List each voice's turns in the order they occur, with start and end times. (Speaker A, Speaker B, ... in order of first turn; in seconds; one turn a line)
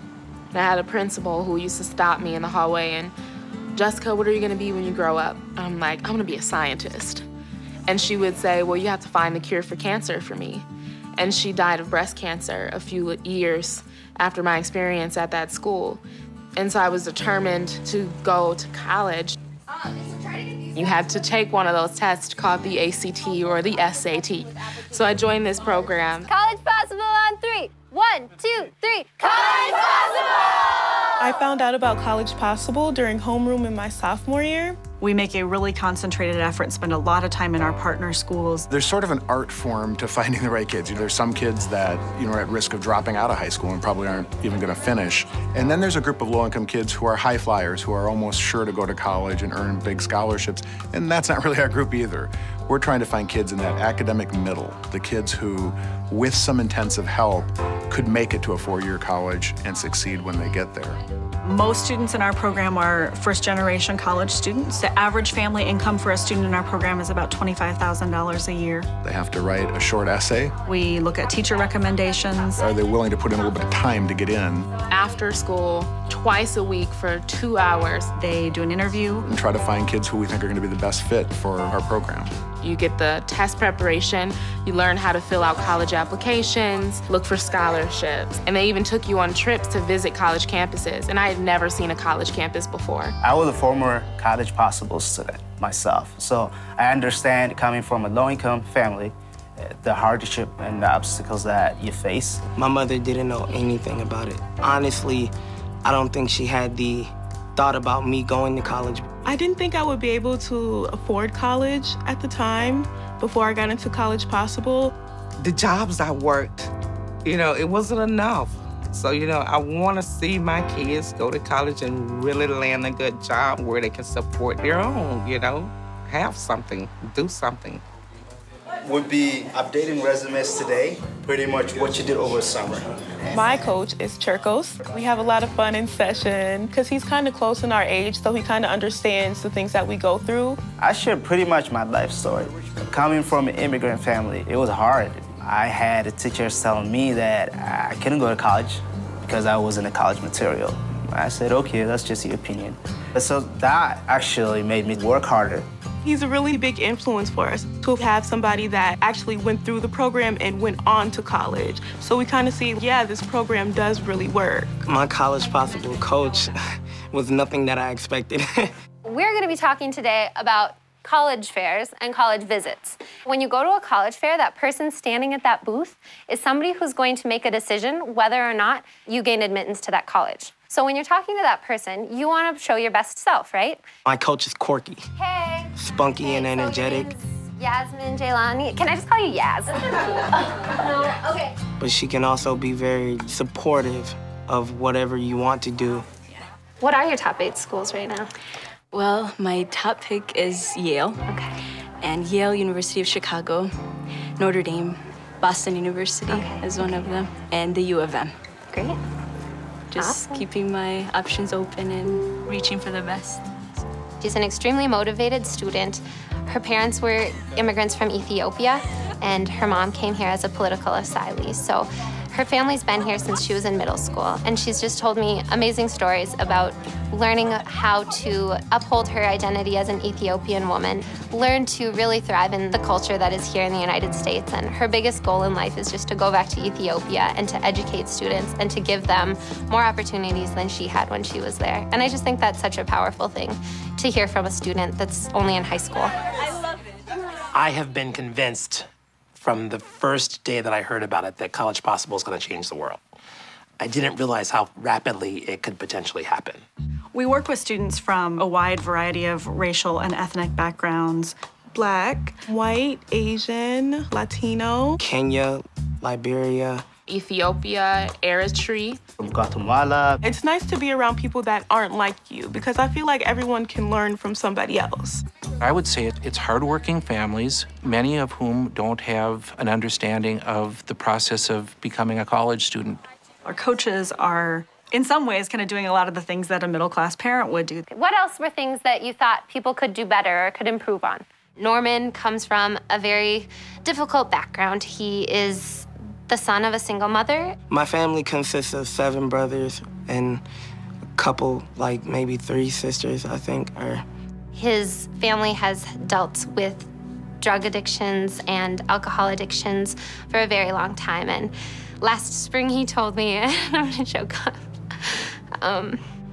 Speaker A: 0.5-3.1
Speaker A: 3.7-7.2
Speaker A: 7.9-16.0
Speaker A: 16.6-19.4
Speaker A: 20.7-26.3
Speaker B: 26.2-30.6
Speaker C: 31.2-34.8
Speaker D: 35.0-38.6
Speaker E: 38.7-61.0
Speaker D: 61.4-68.9
Speaker E: 69.0-70.5
Speaker D: 70.7-72.7
Speaker E: 72.6-74.7
Speaker A: 74.9-78.1
Speaker D: 78.2-79.2
Speaker E: 79.2-82.3
Speaker A: 82.6-93.1
Speaker F: 93.2-102.4
Speaker G: 102.5-109.2
Speaker C: 109.3-114.9
Speaker H: 115.4-116.7
Speaker H: 117.2-127.8
Speaker F: 128.8-133.6
Speaker C: 133.7-140.6
Speaker F: 140.8-155.7
Speaker C: 156.0-164.8
Speaker G: 164.8-166.6
Speaker G: 167.1-168.7
Speaker B: 169.0-183.8
Speaker G: 184.0-185.1
Speaker B: 185.2-191.5
Speaker G: 185.8-187.1
Speaker G: 191.8-196.1
Speaker B: 196.8-198.3
Speaker I: 198.9-201.2
Speaker B: 201.3-201.5
Speaker I: 202.0-203.7
Speaker I: 204.4-208.4
Speaker B: 206.3-207.1
Speaker B: 208.7-209.0
Speaker I: 209.9-213.4
Speaker B: 209.9-210.5
Speaker B: 214.2-246.1
Speaker J: 247.5-248.8
Speaker J: 249.4-253.0
Speaker J: 253.8-256.6
Speaker D: 257.1-261.3
Speaker C: 262.5-264.9
Speaker G: 265.0-266.9
Speaker A: 267.1-269.0
Speaker F: 269.2-270.2
Speaker C: 270.3-275.2
Speaker K: 275.6-283.0
Speaker D: 283.4-287.8
Speaker B: 287.9-297.5
Speaker G: 297.7-300.4
Speaker G: 301.2-304.0
Speaker B: 304.5-306.9
Speaker B: 307.4-316.0